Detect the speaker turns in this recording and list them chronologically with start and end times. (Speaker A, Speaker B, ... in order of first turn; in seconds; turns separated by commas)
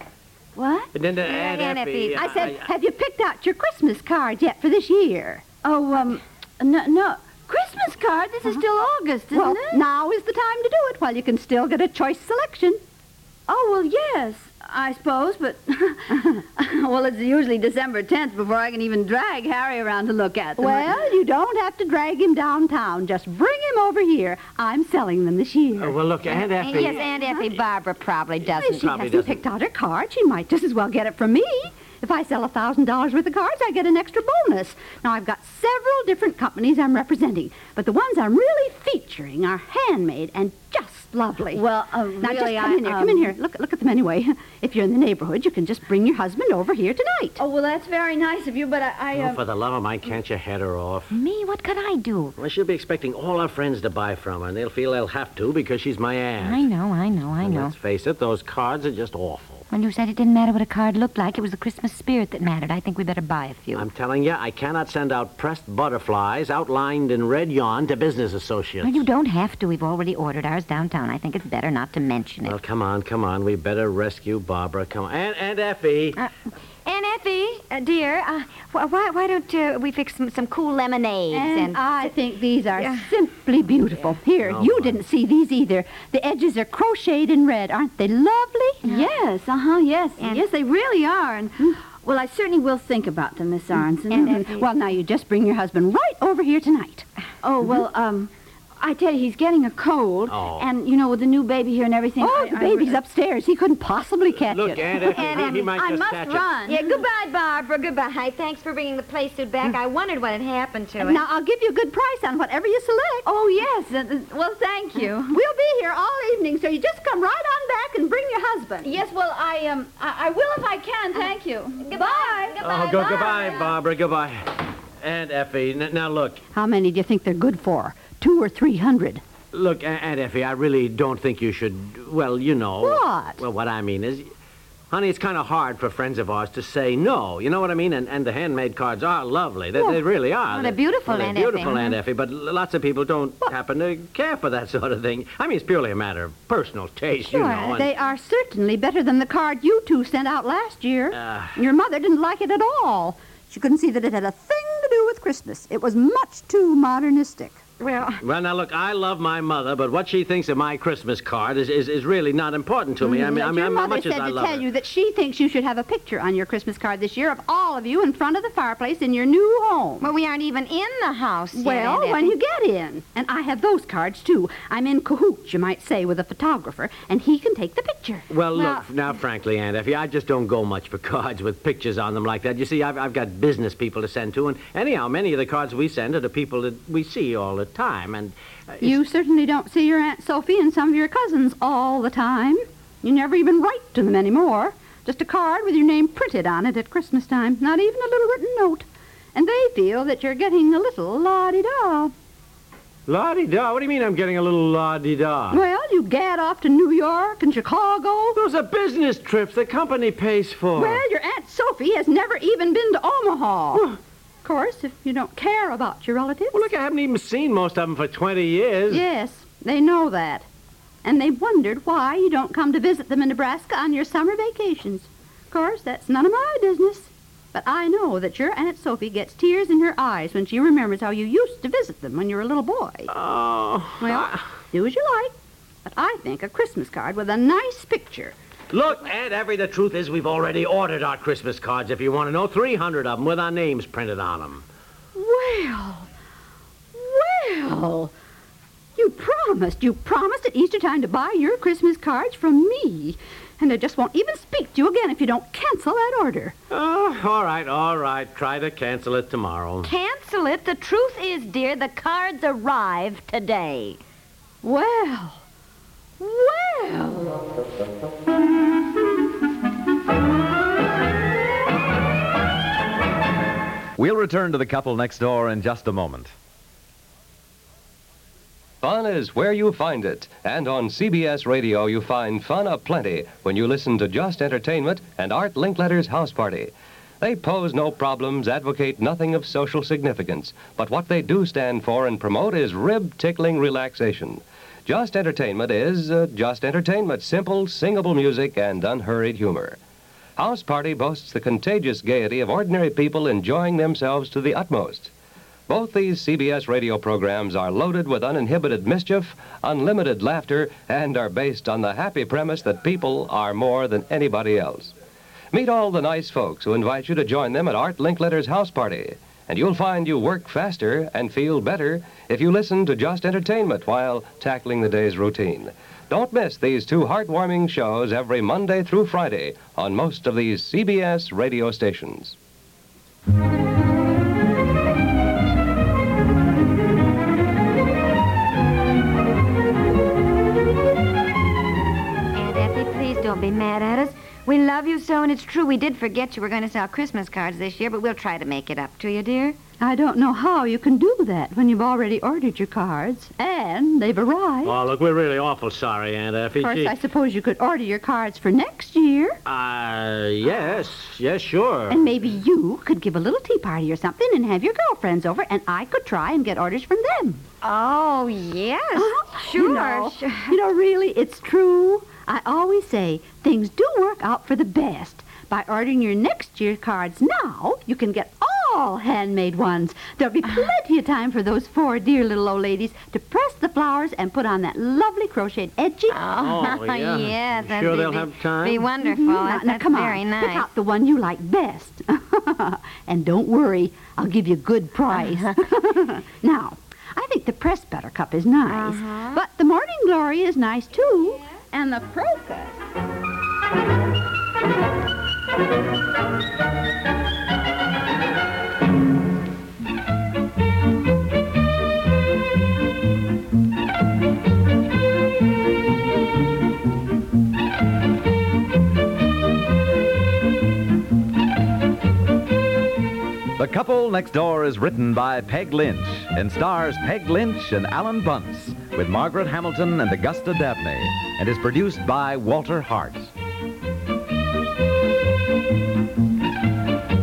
Speaker A: 0.6-0.9, Speaker B: 0.9-2.7, Speaker C: 1.2-2.4, Speaker D: 2.1-5.5, Speaker A: 5.6-9.8, Speaker D: 9.3-12.8, Speaker A: 13.5-21.1, Speaker D: 20.6-26.0, Speaker B: 25.8-27.1, Speaker C: 26.3-29.3, Speaker B: 28.5-29.4, Speaker D: 28.6-41.6, Speaker A: 41.5-43.3, Speaker D: 42.2-47.4, Speaker A: 47.4-49.4, Speaker B: 49.1-51.2, Speaker C: 51.1-52.4, Speaker B: 52.4-56.7, Speaker C: 56.4-57.7, Speaker B: 57.4-59.6, Speaker C: 59.7-63.9, Speaker B: 63.8-69.1, Speaker C: 68.8-72.6, Speaker B: 72.4-76.2, Speaker C: 76.8-82.1, Speaker D: 81.3-89.0, Speaker C: 82.8-83.1, Speaker B: 84.5-85.0, Speaker C: 88.8-89.1, Speaker A: 88.9-94.5, Speaker C: 90.2-90.5, Speaker C: 94.1-94.5, Speaker D: 94.2-97.1, Speaker A: 97.4-103.0, Speaker B: 100.3-100.7, Speaker D: 102.2-105.0, Speaker B: 104.4-106.5, Speaker A: 104.9-106.1, Speaker C: 105.0-105.6, Speaker D: 105.6-106.8, Speaker C: 106.6-111.3, Speaker D: 111.0-113.3, Speaker A: 113.2-115.3, Speaker D: 114.9-119.0, Speaker A: 118.8-121.2, Speaker D: 121.1-121.8, Speaker C: 121.8-123.6, Speaker A: 121.9-123.7, Speaker B: 122.6-126.4, Speaker D: 126.5-129.2, Speaker B: 129.5-134.3, Speaker D: 132.8-133.4, Speaker B: 134.9-147.9, Speaker C: 140.5-142.0, Speaker C: 147.3-147.8, Speaker D: 147.8-157.6, Speaker B: 151.1-151.6, Speaker C: 157.8-158.2, Speaker B: 158.2-164.7, Speaker D: 163.0-170.1, Speaker C: 170.0-172.4, Speaker D: 171.5-178.3, Speaker B: 178.3-189.0, Speaker C: 178.5-178.9, Speaker D: 188.8-202.1, Speaker B: 203.1-205.6, Speaker D: 205.5-208.4, Speaker B: 208.3-211.0, Speaker D: 210.8-213.9, Speaker D: 214.4-216.7, Speaker B: 216.5-219.0, Speaker D: 218.9-220.5, Speaker D: 221.0-233.1, Speaker B: 233.1-234.4, Speaker D: 234.0-235.3, Speaker D: 235.8-238.3, Speaker B: 238.7-244.7, Speaker D: 245.2-246.1, Speaker D: 246.9-248.1, Speaker D: 249.0-256.6, Speaker B: 256.7-259.9, Speaker C: 259.8-264.0, Speaker D: 264.6-265.4, Speaker D: 266.5-267.3, Speaker E: 274.0-276.3, Speaker F: 278.8-299.8, Speaker F: 300.4-305.1, Speaker F: 305.7-314.9, Speaker F: 315.5-332.4, Speaker C: 342.3-349.6, Speaker D: 349.8-354.8, Speaker B: 354.6-357.0, Speaker D: 356.6-359.4, Speaker B: 359.4-362.1, Speaker D: 361.9-367.4, Speaker C: 367.6-370.6, Speaker D: 368.9-386.7, Speaker C: 386.1-390.7, Speaker B: 386.4-388.9, Speaker D: 388.9-402.8, Speaker C: 395.1-395.7, Speaker C: 398.7-399.4, Speaker E: 423.6-433.3